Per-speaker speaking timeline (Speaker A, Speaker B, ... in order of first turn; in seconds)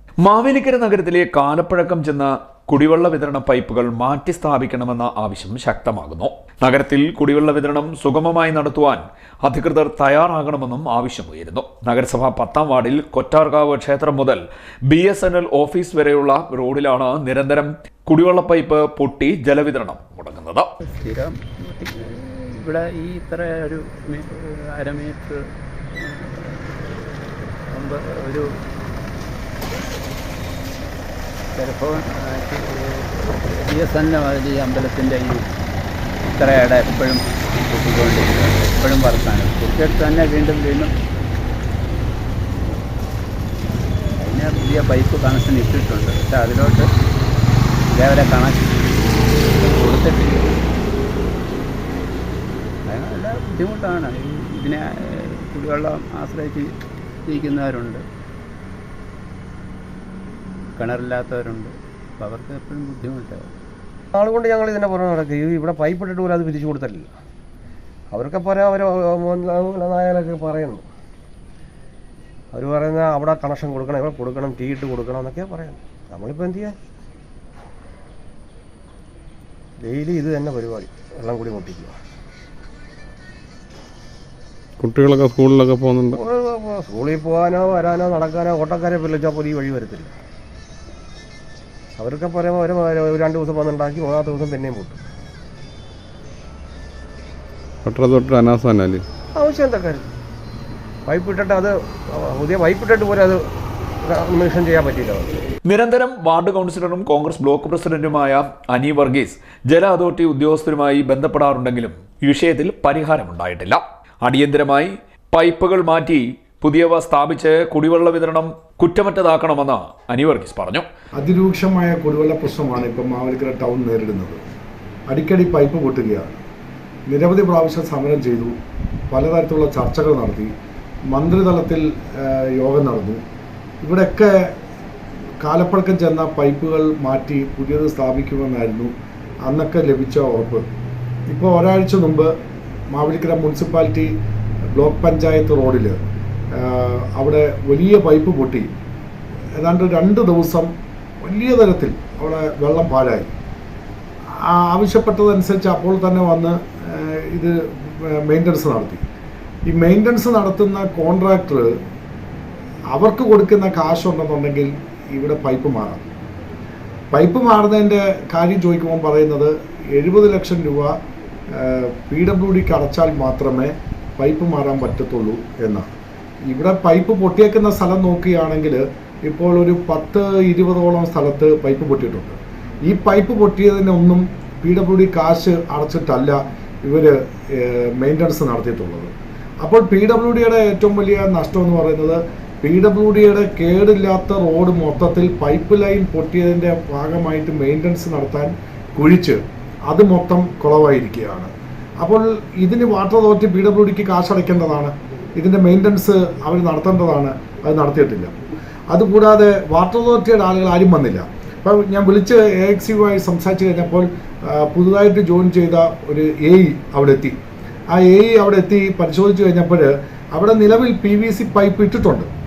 Speaker A: 0.2-20.7, 105.7-120.9
Speaker B: 20.8-25.4, 26.0-28.5, 31.6-35.5, 36.3-40.9, 44.2-46.9, 47.9-48.8, 49.5-50.5, 52.9-56.7, 57.3-58.0, 60.8-63.5
Speaker C: 64.1-67.2, 68.1-70.9, 72.5-76.8, 79.8-82.0, 86.1-90.2, 92.0-95.0, 99.3-100.1, 101.1-103.5, 104.0-105.3
Speaker D: 84.8-86.2, 97.8-99.0
Speaker E: 121.2-124.4, 125.1-126.3, 127.1-128.5, 129.1-130.5, 131.1-133.2, 133.8-134.3, 135.4-138.9, 139.5-140.6, 141.3-142.3, 142.9-144.1, 144.8-146.0, 146.6-148.7, 149.6-150.7, 151.2-153.3, 154.4-159.0, 159.7-161.7, 162.9-166.1, 167.1-170.9, 171.5-175.9, 176.5-189.1, 189.6-201.5, 202.0-208.3, 208.9-217.4, 217.9-222.3